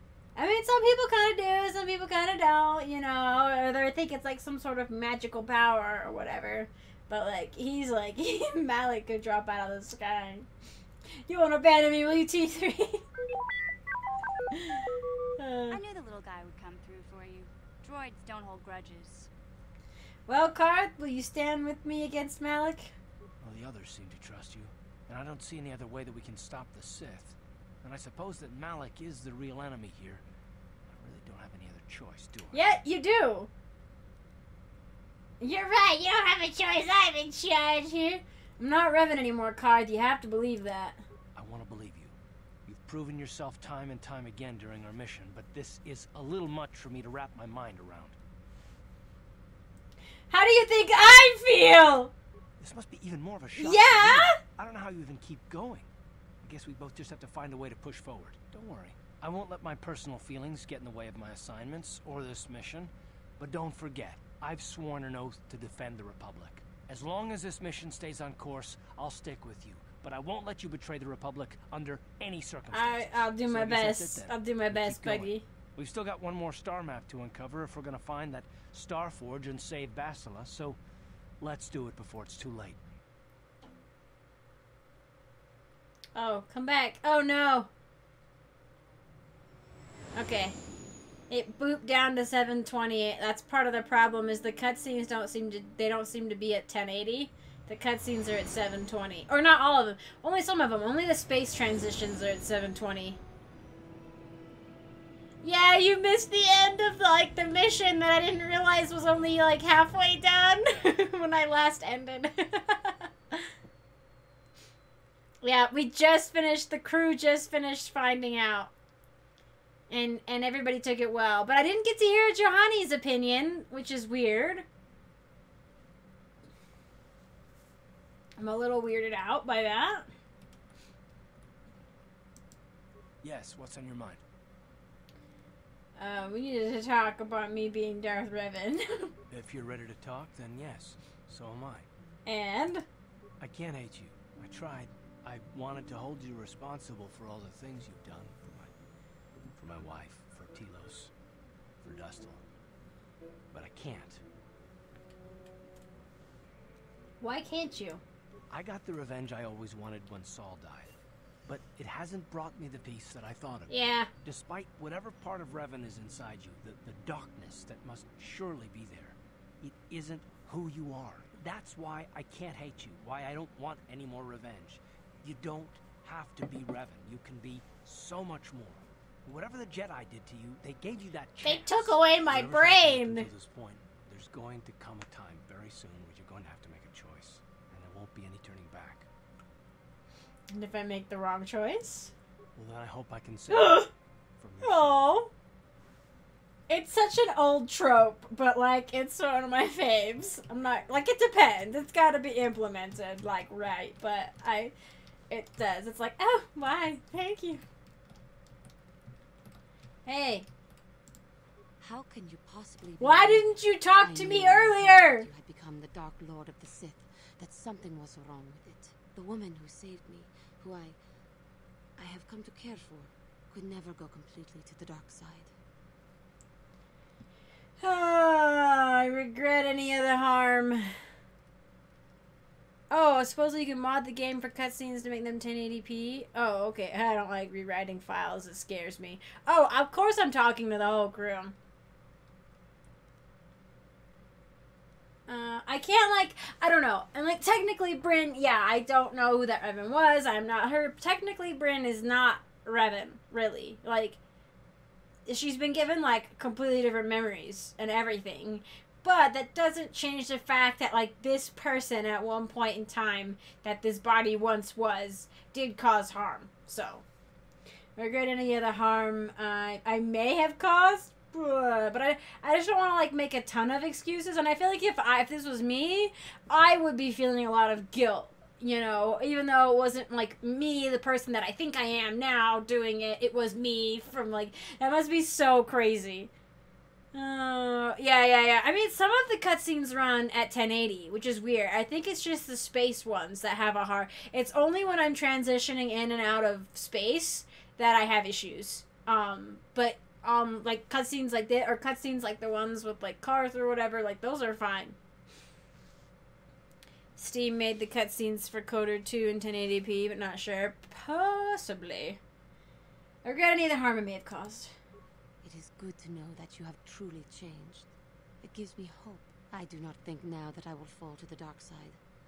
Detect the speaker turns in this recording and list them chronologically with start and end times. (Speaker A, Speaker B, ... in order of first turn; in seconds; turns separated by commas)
Speaker A: 0.4-10.5, Speaker A: 11.3-13.0, Speaker A: 14.5-14.9, Speaker A: 15.4-15.8, Speaker B: 15.7-19.3, Speaker A: 20.3-22.9, Speaker C: 23.4-30.2, Speaker C: 30.9-32.6, Speaker A: 32.5-33.5, Speaker A: 35.4-41.0, Speaker C: 41.4-42.1, Speaker C: 42.7-48.2, Speaker A: 50.3-52.1, Speaker C: 52.6-55.9, Speaker A: 53.6-54.4, Speaker C: 56.4-80.8, Speaker A: 72.7-75.4, Speaker C: 81.4-82.8, Speaker A: 86.2-87.7, Speaker A: 90.2-90.6, Speaker A: 91.3-103.2, Speaker A: 105.4-113.5, Speaker A: 115.4-118.7, Speaker A: 119.9-124.7, Speaker A: 128.4-130.1, Speaker C: 133.2-134.2, Speaker A: 136.0-139.1, Speaker C: 139.3-141.9, Speaker A: 142.3-142.8, Speaker C: 143.4-148.7, Speaker C: 149.5-151.1, Speaker C: 151.8-152.4, Speaker C: 153.5-154.2, Speaker A: 157.2-158.0, Speaker C: 158.5-161.0, Speaker C: 161.5-189.1, Speaker A: 163.7-164.1, Speaker A: 181.4-183.3, Speaker A: 190.5-192.1, Speaker C: 192.6-195.0, Speaker A: 193.5-193.9, Speaker A: 194.6-195.3, Speaker A: 196.7-204.7, Speaker A: 205.3-207.6, Speaker A: 210.1-210.5, Speaker D: 211.8-221.0, Speaker A: 213.0-215.3, Speaker D: 222.0-225.5, Speaker A: 227.8-230.9, Speaker A: 232.9-241.6, Speaker A: 245.3-254.2, Speaker A: 255.3-267.0, Speaker A: 268.0-286.3, Speaker A: 287.1-305.0, Speaker A: 307.2-312.2, Speaker A: 313.2-314.7, Speaker D: 315.4-317.9, Speaker D: 318.4-322.0